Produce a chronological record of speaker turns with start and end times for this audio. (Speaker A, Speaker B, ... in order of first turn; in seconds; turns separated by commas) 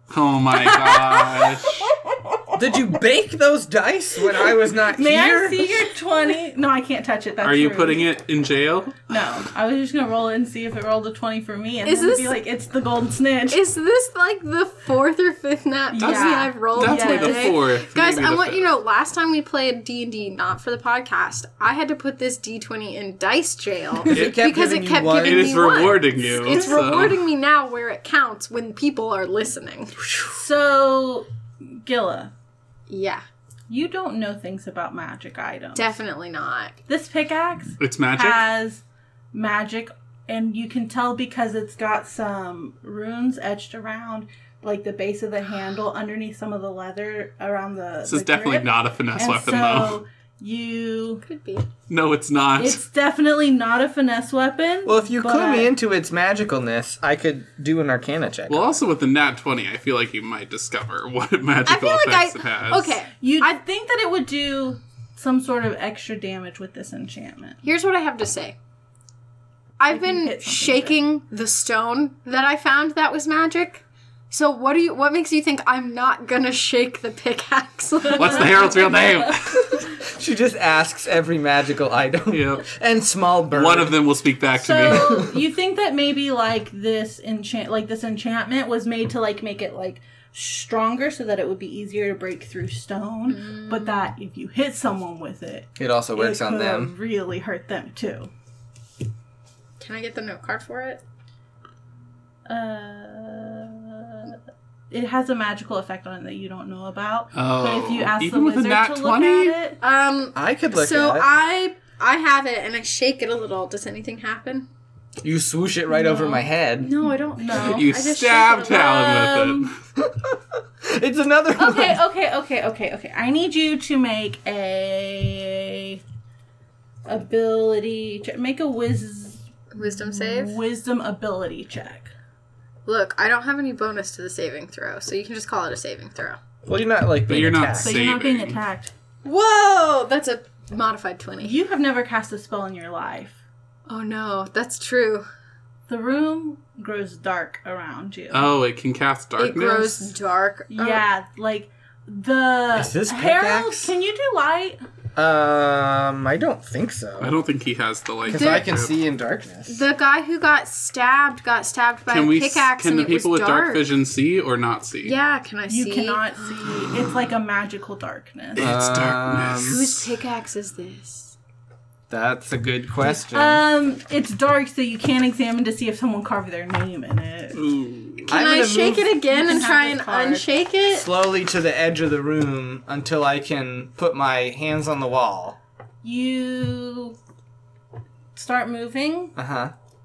Speaker A: 0.1-1.9, Speaker B: 0.5-2.5, Speaker C: 2.6-5.9, Speaker B: 4.9-8.1, Speaker A: 7.4-9.2, Speaker B: 9.1-13.6, Speaker D: 11.8-12.4, Speaker D: 13.5-30.0, Speaker B: 15.9-17.6, Speaker A: 16.0-18.7, Speaker C: 24.1-25.9, Speaker A: 25.2-27.2, Speaker B: 30.3-32.3, Speaker D: 32.9-33.2, Speaker B: 33.7-35.9, Speaker D: 35.8-36.8, Speaker B: 36.9-51.2, Speaker A: 37.8-38.5, Speaker A: 48.0-50.0, Speaker D: 51.2-51.7, Speaker A: 51.9-52.8, Speaker B: 52.6-55.7, Speaker C: 54.9-58.8, Speaker A: 58.5-63.0, Speaker D: 61.7-63.6, Speaker B: 63.2-67.6, Speaker D: 67.6-68.6, Speaker D: 69.8-79.0, Speaker B: 69.9-71.0, Speaker B: 78.0-79.3, Speaker A: 78.1-79.6, Speaker C: 79.5-84.0, Speaker A: 82.3-82.7, Speaker A: 83.5-85.3, Speaker B: 84.6-98.3, Speaker D: 93.3-94.1, Speaker C: 95.8-96.9, Speaker D: 99.8-101.0, Speaker B: 102.5-104.4, Speaker B: 104.9-109.8, Speaker A: 107.3-109.6, Speaker D: 109.8-114.7, Speaker C: 110.3-111.3, Speaker C: 115.2-116.9, Speaker B: 115.9-116.4, Speaker D: 116.8-119.3, Speaker B: 117.4-117.9, Speaker A: 117.5-119.7, Speaker B: 118.9-119.7, Speaker C: 120.0-122.0, Speaker B: 121.6-126.0, Speaker B: 127.1-132.1, Speaker D: 129.7-130.6, Speaker D: 132.9-136.4, Speaker C: 136.7-138.0, Speaker A: 137.3-138.6, Speaker B: 137.8-138.9, Speaker D: 139.2-141.6, Speaker B: 141.4-143.4, Speaker D: 143.9-145.3, Speaker B: 145.9-148.5, Speaker A: 148.3-150.1, Speaker D: 149.4-151.1, Speaker B: 150.7-154.8, Speaker C: 152.7-153.9, Speaker C: 155.2-157.3, Speaker A: 157.2-158.9, Speaker D: 158.3-158.7, Speaker C: 158.3-159.9, Speaker D: 159.7-163.9, Speaker A: 162.1-165.2, Speaker D: 165.0-166.9, Speaker B: 165.7-168.8, Speaker A: 168.6-170.1, Speaker C: 168.6-169.8, Speaker D: 169.6-171.3, Speaker C: 172.1-173.6, Speaker B: 173.0-177.6, Speaker A: 177.5-178.3, Speaker C: 178.3-179.1, Speaker D: 178.3-181.1, Speaker B: 179.3-180.5, Speaker C: 180.9-185.6, Speaker B: 186.0-187.2, Speaker B: 188.3-189.3, Speaker C: 189.3-189.7